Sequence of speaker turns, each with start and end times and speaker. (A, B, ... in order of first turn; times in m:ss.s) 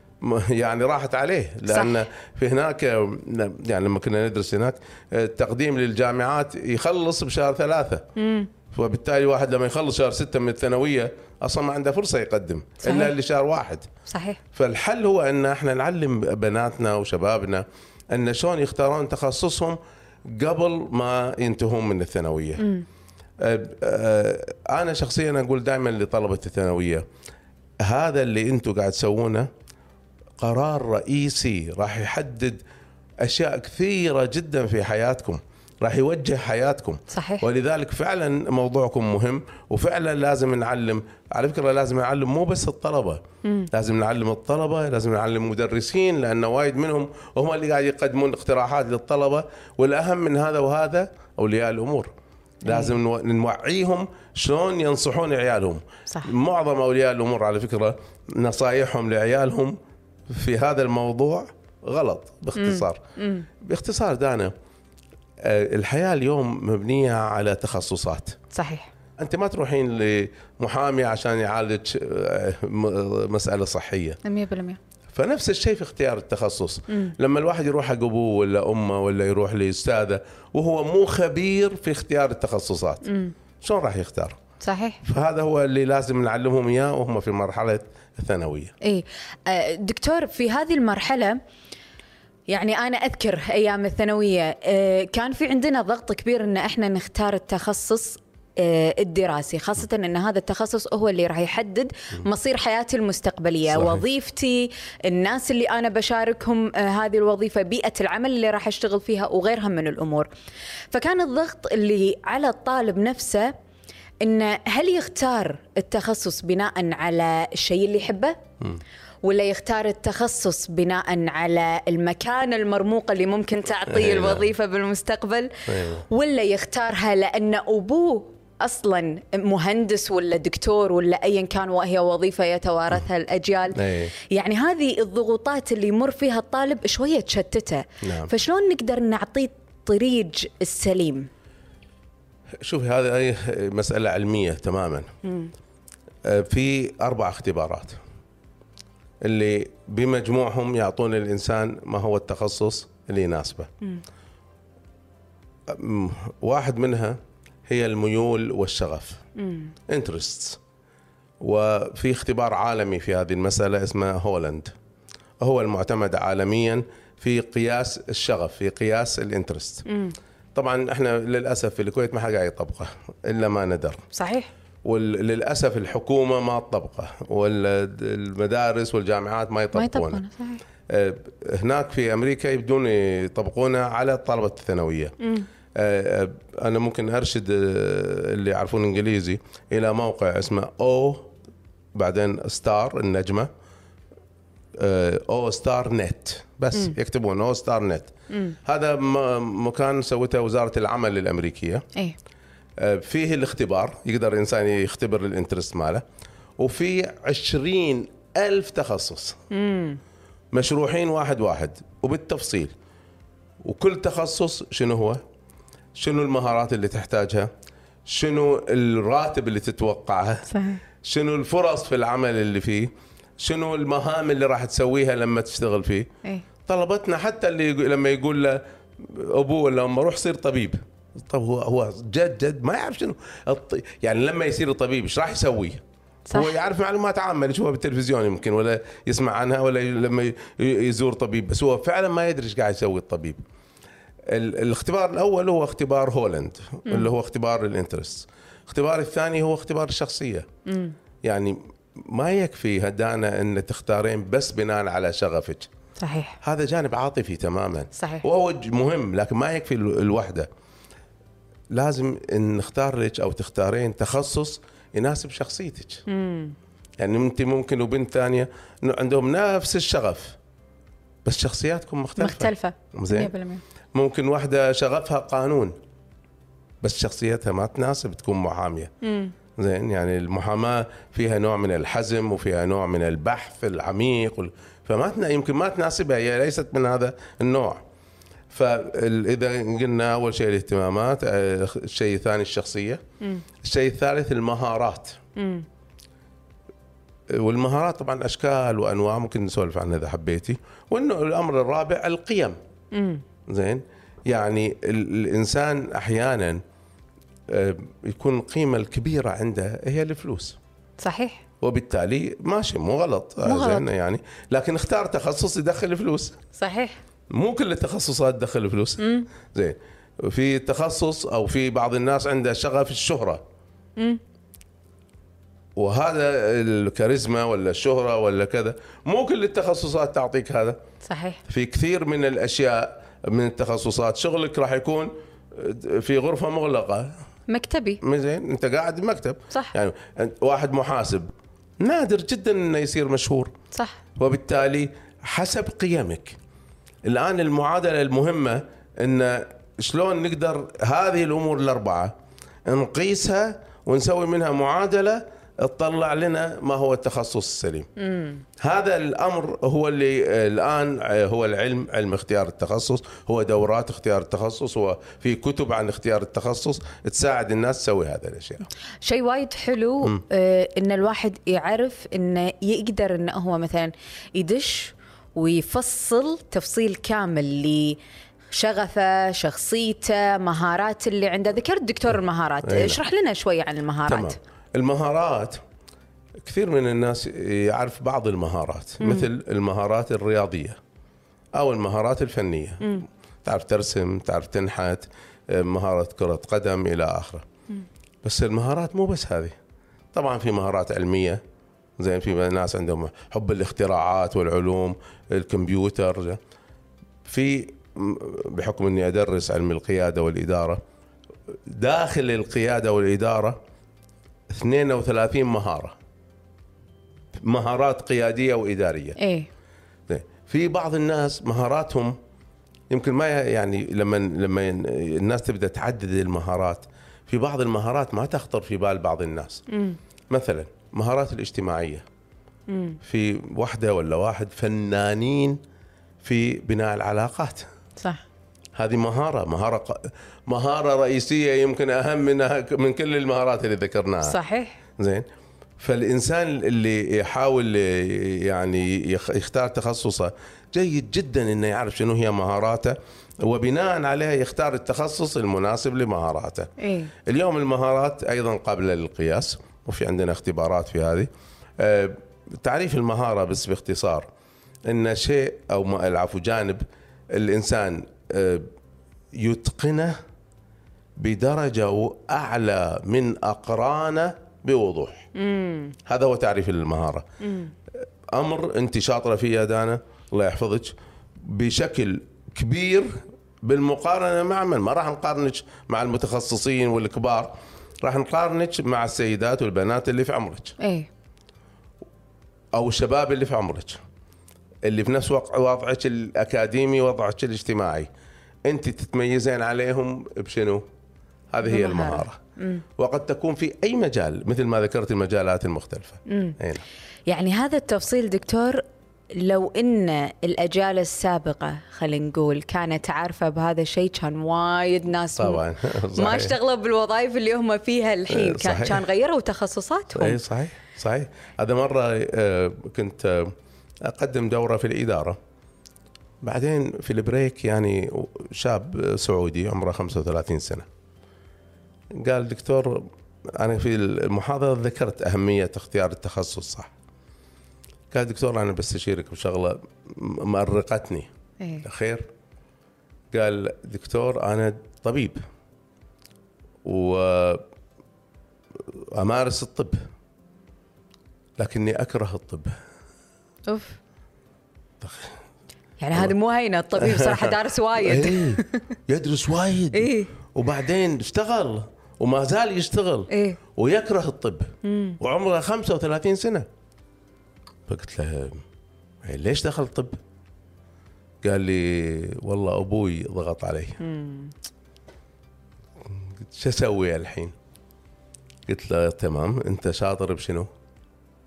0:00.2-0:08.0 A
0:01.7-0:02.0 B
0:08.2-0:08.5 B
0:08.7-0:13.9 A
0:12.8-0:13.1 B
0:14.1-0:14.4 B
0:14.5-0:19.8 A
0:20.3-0:22.6 A
0:22.6-0:22.9 B
0:23.4-0:27.0 A
0:27.8-0:29.5 A
0:30.4-0:32.6 A
0:33.2-0:52.1 A
0:37.1-0:37.5 B
0:52.6-0:52.9 B
0:52.7-0:59.8 A
1:00.3-1:03.0 A
1:02.6-1:03.5 B
1:03.6-1:04.5 A
1:05.4-1:08.4 A
1:08.5-1:08.9 B
1:09.2-1:14.2 A
1:14.2-1:14.8 B
1:15.1-1:23.1 A
1:16.9-1:17.1 B
1:23.1-1:23.3 B
1:23.6-1:24.4 A
1:24.6-1:25.0 B
1:25.0-1:28.7 A
1:28.8-1:31.4 B
1:32.5-1:50.3 B
1:43.7-1:44.0 A
1:50.9-1:53.5 B
1:54.2-1:58.4 B
1:59.2-2:21.3 B
2:03.9-2:04.5 A
2:05.7-2:06.0 A
2:13.8-2:14.1 A
2:18.0-2:18.3 A
2:22.6-2:25.1 A
2:25.2-2:25.5 B
2:26.2-2:28.0 A
2:29.2-2:33.7 A
2:35.7-2:39.2 A
2:39.4-2:39.7 B
2:39.9-2:40.6 A
2:41.4-2:44.7 A
2:45.4-2:49.8 A
2:49.9-2:50.2 B
2:50.6-2:54.0 A
2:54.1-2:54.5 B
2:54.8-3:00.2 A
2:59.7-3:00.6 B
3:00.9-3:05.1 A
3:05.2-3:05.5 B
3:05.8-3:11.3 A
3:12.0-3:13.5 A
3:14.8-3:18.1 A
3:18.3-3:18.6 B
3:18.6-3:21.8 A
3:22.8-3:26.0 A
3:26.6-3:29.4 A
3:29.5-3:30.0 B
3:30.5-3:32.7 A
3:33.6-3:35.2 A
3:36.0-3:37.5 A
3:38.1-3:46.1 A
3:40.5-3:40.8 B
3:46.7-3:55.8 A
3:56.3-3:56.6 B
3:56.3-4:03.4 A
4:04.3-4:10.5 A
4:10.7-4:11.0 B
4:11.2-4:15.7 A
4:16.0-4:16.4 B
4:16.4-4:20.5 A
4:18.0-4:18.2 B
4:21.7-4:26.0 A
4:26.1-4:26.6 B
4:27.0-4:30.4 A
4:31.2-4:33.3 A
4:32.2-4:33.6 B
4:34.0-4:35.8 A
4:36.8-4:38.9 A
4:39.0-4:39.3 B
4:39.6-4:47.8 A
4:48.5-4:53.0 A
4:53.6-4:55.2 A
4:55.4-4:55.6 B
4:57.3-5:02.6 A
5:02.9-5:03.2 B
5:03.5-5:06.6 A
5:07.5-5:10.6 A
5:11.0-5:11.4 B
5:11.6-5:16.4 A
5:13.4-5:13.9 B
5:16.6-5:17.0 B
5:17.3-5:23.4 A
5:19.0-5:19.3 B
5:25.8-5:30.8 A
5:31.0-5:31.4 B
5:31.5-5:37.1 A
5:37.5-5:38.0 B
5:38.0-5:43.5 A
5:43.7-5:44.0 B
5:44.2-5:46.4 A
5:47.1-5:52.1 A
5:52.7-5:57.9 A
5:58.0-5:58.4 B
5:58.6-6:08.7 A
6:09.0-6:18.0 B
6:18.5-6:24.4 B
6:22.6-6:23.0 A
6:24.1-6:25.6 A
6:26.4-6:30.8 A
6:29.0-6:29.3 B
6:31.6-6:37.5 A
6:38.2-6:39.6 A
6:40.1-6:41.4 A
6:42.0-6:46.4 A
6:47.2-6:50.8 A
6:51.5-6:53.6 A
6:54.5-6:56.0 A
6:57.4-6:59.2 A
6:59.2-6:59.5 B
7:00.1-7:02.2 A
7:02.9-7:09.6 A
7:09.7-7:10.0 B
7:10.3-7:12.0 A
7:12.7-7:13.0 B
7:13.0-7:15.6 A
7:16.2-7:17.7 A
7:18.8-7:24.4 A
7:24.2-7:24.8 B
7:25.0-7:25.3 A
7:25.8-7:36.7 A
7:36.8-7:37.1 B
7:37.3-7:44.3 A
7:44.9-7:48.7 A
7:49.4-7:50.2 A
7:51.2-7:55.3 A
7:55.4-7:56.0 B
7:56.1-7:57.3 A
7:57.4-7:57.7 B
7:58.4-8:03.1 A
8:03.6-8:10.8 A
8:10.8-8:11.1 B
8:12.8-8:14.0 A
8:14.8-8:18.1 A
8:18.7-8:20.8 A
8:21.5-8:22.4 A
8:21.6-8:22.8 B
8:23.0-8:26.9 A
8:26.3-8:26.6 B
8:27.3-8:35.6 B
8:35.4-8:36.6 A
8:36.1-8:40.4 B
8:38.3-8:39.0 A
8:40.1-8:45.4 A
8:46.4-8:50.9 A
8:52.2-8:56.9 A
8:58.1-9:01.3 A
9:01.8-9:02.3 A
9:03.3-9:05.4 A
9:06.8-9:07.6 A
9:08.9-9:10.0 A
9:11.6-9:12.8 A
9:13.7-9:14.0 B
9:15.0-9:15.4 A
9:16.0-9:18.8 B
9:17.0-9:26.7 A
9:19.9-9:20.3 B
9:23.3-9:23.6 B
9:24.8-9:25.2 B
9:27.9-9:28.6 A
9:29.2-9:30.2 A
9:31.4-9:34.0 A
9:34.0-9:34.5 B
9:36.0-9:37.5 A
9:38.7-9:40.7 A